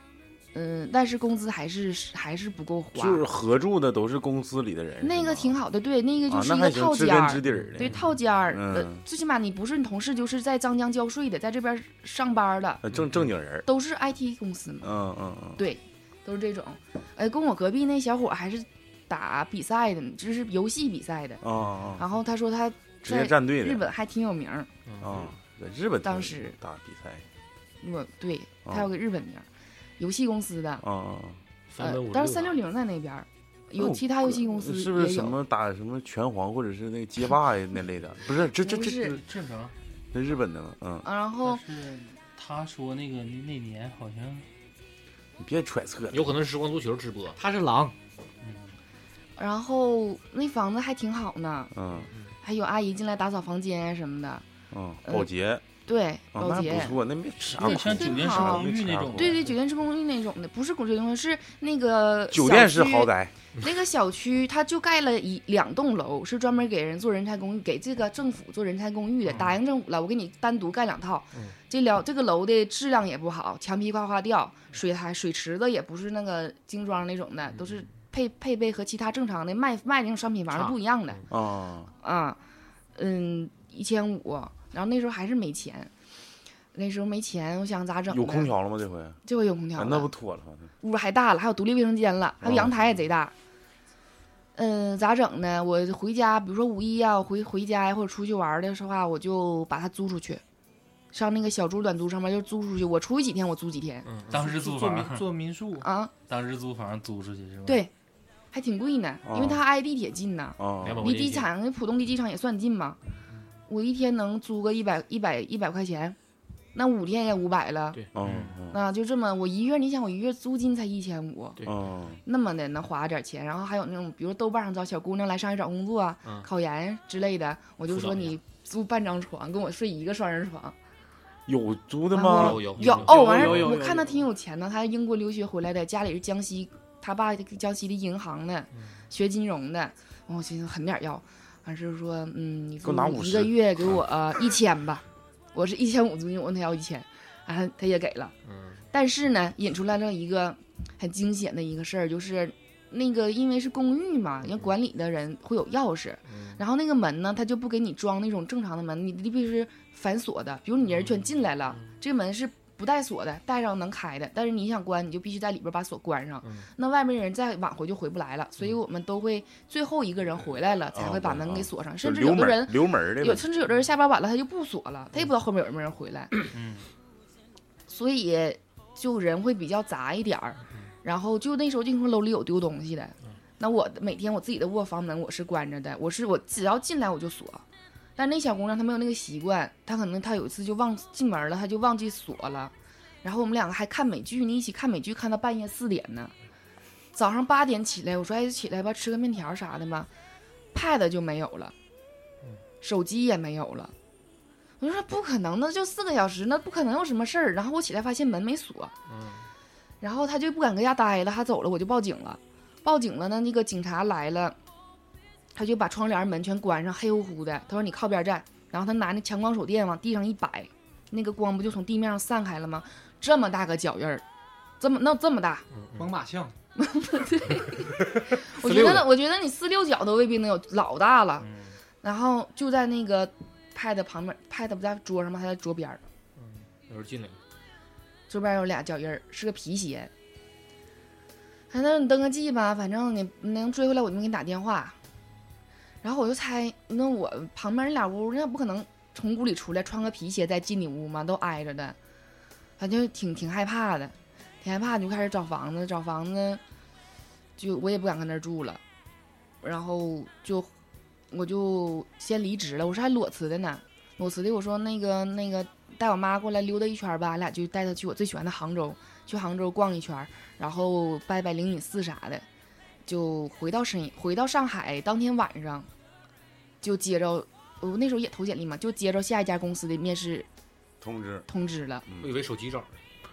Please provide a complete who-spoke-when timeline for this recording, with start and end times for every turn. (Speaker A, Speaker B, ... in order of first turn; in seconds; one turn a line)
Speaker A: 0.5-3.2
Speaker B: 2.9-5.6
Speaker A: 5.0-12.8
Speaker B: 6.3-9.0
Speaker C: 7.8-8.1
Speaker B: 12.8-13.7
Speaker C: 12.9-13.3
Speaker A: 13.7-14.9
Speaker B: 14.8-15.6
Speaker A: 15.6-21.4
Speaker B: 21.4-22.0
Speaker A: 22.0-24.7
Speaker B: 23.0-23.8
Speaker C: 24.9-25.4
Speaker B: 25.0-27.2
Speaker A: 26.0-26.6
Speaker A: 27.8-29.4
Speaker A: 30.0-30.8
Speaker B: 30.8-31.4
Speaker C: 31.7-32.6
Speaker A: 31.8-35.4
Speaker B: 33.8-39.2
Speaker A: 38.6-39.2
Speaker D: 39.2-39.7
Speaker B: 40.1-41.1
Speaker A: 41.0-41.6
Speaker D: 41.4-44.5
Speaker B: 45.4-46.3
Speaker C: 46.1-47.4
Speaker E: 47.4-47.9
Speaker D: 48.4-48.7
Speaker A: 49.4-51.7
Speaker B: 51.7-52.1
Speaker C: 52.0-52.3
Speaker A: 52.4-54.4
Speaker B: 54.7-55.6
Speaker A: 55.9-57.0
Speaker B: 56.3-59.4
Speaker D: 57.5-59.5
Speaker A: 57.6-81.2
Speaker B: 62.3-63.3
Speaker C: 77.5-78.0
Speaker C: 80.5-81.2
Speaker B: 81.3-81.9
Speaker A: 82.0-82.4
Speaker A: 83.0-85.9
Speaker A: 86.7-88.5
Speaker B: 88.1-89.2
Speaker A: 89.2-90.1
Speaker B: 89.8-90.7
Speaker A: 90.8-93.3
Speaker B: 92.4-92.7
Speaker A: 94.5-100.4
Speaker A: 101.1-104.1
Speaker C: 104.0-104.3
Speaker D: 104.3-105.3
Speaker E: 104.3-105.9
Speaker A: 105.8-106.1
Speaker D: 106.2-107.8
Speaker A: 107.7-107.9
Speaker A: 108.5-113.0
Speaker B: 109.2-109.6
Speaker B: 110.6-111.0
Speaker C: 110.8-111.5
Speaker A: 113.7-116.2
Speaker A: 116.7-118.0
Speaker C: 117.9-118.5
Speaker B: 118.1-118.8
Speaker D: 118.2-118.5
Speaker A: 118.7-121.6
Speaker C: 121.6-122.2
Speaker B: 121.6-122.2
Speaker A: 122.2-130.7
Speaker C: 126.2-126.5
Speaker C: 127.9-128.4
Speaker B: 131.5-133.8
Speaker A: 132.1-148.3
Speaker C: 132.3-134.1
Speaker C: 138.7-139.0
Speaker B: 142.8-144.0
Speaker C: 148.4-148.8
Speaker A: 148.9-176.3
Speaker C: 154.4-154.7
Speaker C: 156.3-156.6
Speaker C: 160.9-162.0
Speaker C: 166.4-166.7
Speaker B: 170.9-173.4
Speaker D: 176.5-176.9
Speaker A: 177.9-187.6
Speaker A: 188.2-196.3
Speaker A: 197.1-200.1
Speaker A: 200.7-201.7
Speaker A: 202.8-203.9
Speaker A: 204.8-208.9
Speaker C: 209.1-209.5
Speaker A: 210.0-214.6
Speaker A: 215.5-224.2
Speaker A: 224.8-225.7
Speaker C: 225.7-226.1
Speaker E: 225.9-226.5
Speaker A: 226.8-231.5
Speaker C: 228.1-229.1
Speaker D: 231.4-231.7
Speaker A: 232.0-236.0
Speaker C: 236.3-237.4
Speaker A: 238.3-240.1
Speaker A: 241.7-245.0
Speaker A: 246.0-251.9
Speaker A: 252.8-256.6
Speaker A: 257.6-258.8
Speaker A: 259.6-260.7
Speaker A: 261.3-272.4
Speaker A: 273.1-275.9
Speaker A: 276.8-280.5
Speaker B: 281.0-281.4
Speaker A: 281.5-282.0
Speaker C: 282.2-282.9